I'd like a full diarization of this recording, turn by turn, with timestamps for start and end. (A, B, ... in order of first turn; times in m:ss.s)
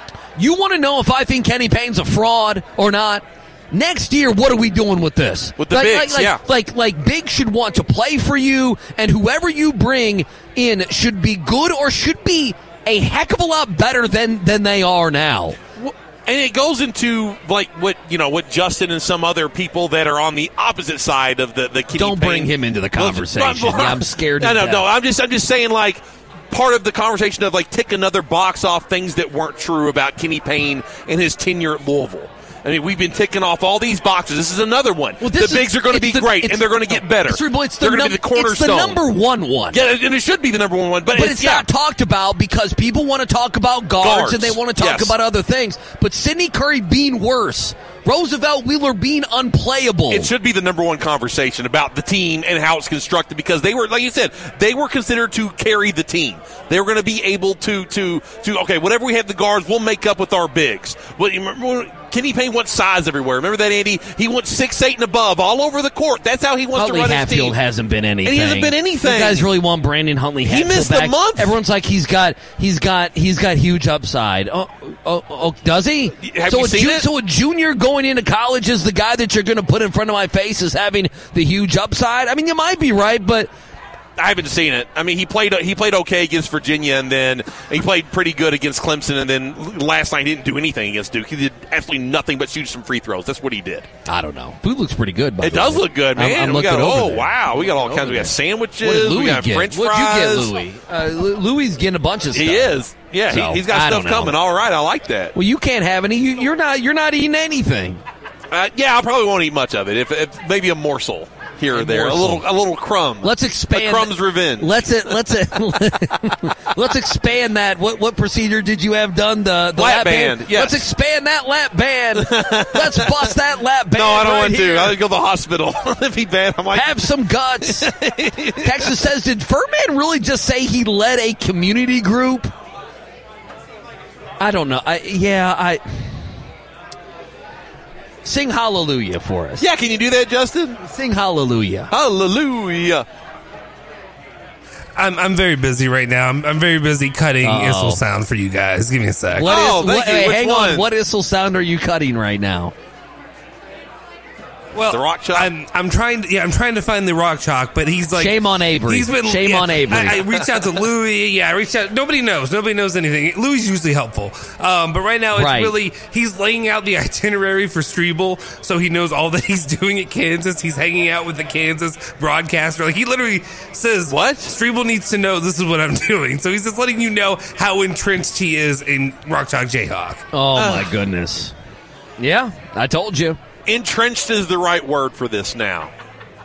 0:00.4-0:15.6 A
0:05.6-0:06.4 B
0:15.8-0:39.0 B
0:22.0-0:24.8 A
0:35.2-0:39.8 A
0:39.7-0:41.7 B
0:41.1-0:50.3 A
0:44.0-0:45.1 B
0:50.1-1:07.6 B
1:06.8-1:23.5 A
1:08.2-1:09.5 B
1:10.5-1:11.6 B
1:16.2-1:17.1 B
1:24.2-1:33.9 B
1:34.0-1:44.4 A
1:35.4-1:40.5 B
1:42.3-1:45.3 B
1:45.3-1:48.0 A
1:48.5-1:55.1 B
1:51.7-1:52.4 A
1:53.2-2:05.0 A
1:59.8-2:00.8 B
2:02.2-2:03.3 B
2:03.9-2:07.1 B
2:06.7-2:07.9 A
2:07.6-2:08.9 B
2:08.6-2:12.5 A
2:14.4-2:16.2 A
2:18.2-2:19.6 A
2:19.6-2:20.8 B
2:20.8-2:21.9 A
2:21.9-2:23.0 B
2:25.0-2:29.5 C
2:27.4-2:28.0 A
2:29.3-2:32.7 A
2:29.4-2:30.9 B
2:34.7-3:00.2 C
2:34.9-2:35.5 B
2:38.1-2:40.2 A
2:40.0-2:40.4 B
2:45.3-2:45.7 A
2:54.1-2:54.5 B
3:00.3-3:01.5 A
3:00.5-3:00.9 B
3:02.2-3:03.4 A
3:03.6-3:05.9 B